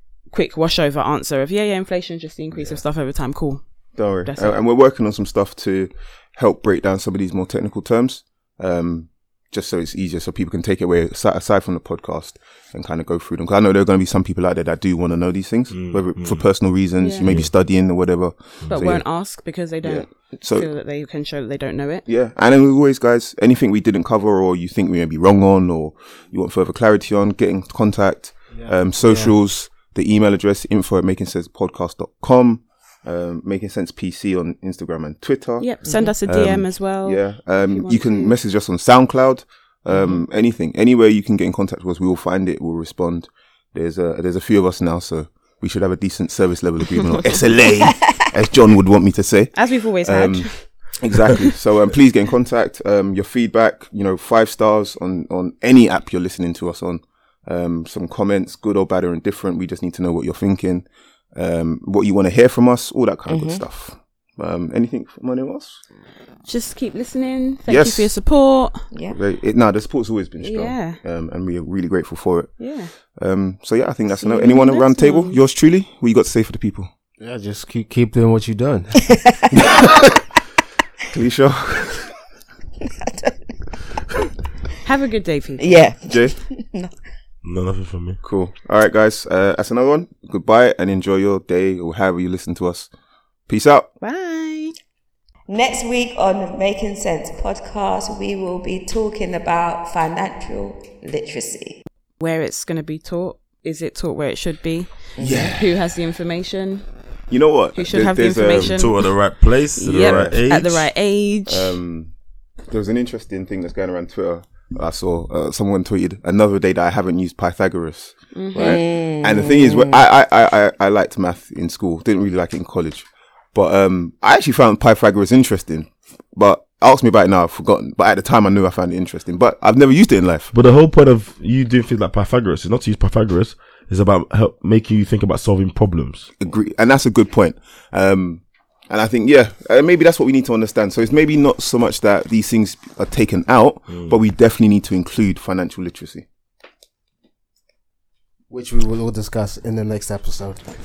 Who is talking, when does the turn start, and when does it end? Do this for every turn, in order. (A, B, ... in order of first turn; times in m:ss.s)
0:00.3-0:04.6 A
0:02.5-0:02.8 B
0:04.0-0:19.0 B
0:15.7-0:16.5 C
0:17.0-0:17.3 A
0:17.2-0:17.5 C
0:18.7-0:22.0 A
0:19.8-0:20.7 B
0:22.1-0:35.7 B
0:28.5-0:29.3 D
0:35.6-0:38.3 A
0:36.2-1:05.8 B
0:39.9-0:40.2 A
0:49.5-0:51.0 A
1:03.3-1:03.6 E
1:06.4-1:08.9 A
1:07.7-1:08.1 B
1:08.9-1:09.2 E
1:09.1-1:16.9 B
1:10.4-1:11.0 A
1:12.6-1:12.9 A
1:14.2-1:15.4 A
1:17.2-1:19.1 D
1:19.2-1:19.4 E
1:21.1-1:22.1 B
1:22.9-1:23.4 E
1:24.8-1:25.7 A
1:25.6-1:26.9 E
1:26.0-1:26.3 B
1:27.4-1:28.2 C
1:28.2-1:32.9 B
1:33.5-1:33.9 B
1:34.0-1:34.7 A
1:35.5-1:41.8 E
1:42.2-1:46.9 A
1:45.2-1:45.5 E
1:45.2-1:45.7 B
1:47.3-1:48.9 B
1:47.7-1:51.8 A
1:48.5-1:50.9 C
1:49.9-1:50.4 B
1:51.5-1:52.1 B
1:52.7-2:10.5 B
1:58.3-1:58.8 A
1:58.6-2:00.0 E
2:10.5-2:16.3 C
2:16.4-2:26.2 B
2:23.9-2:24.2 C
2:28.5-2:30.6 D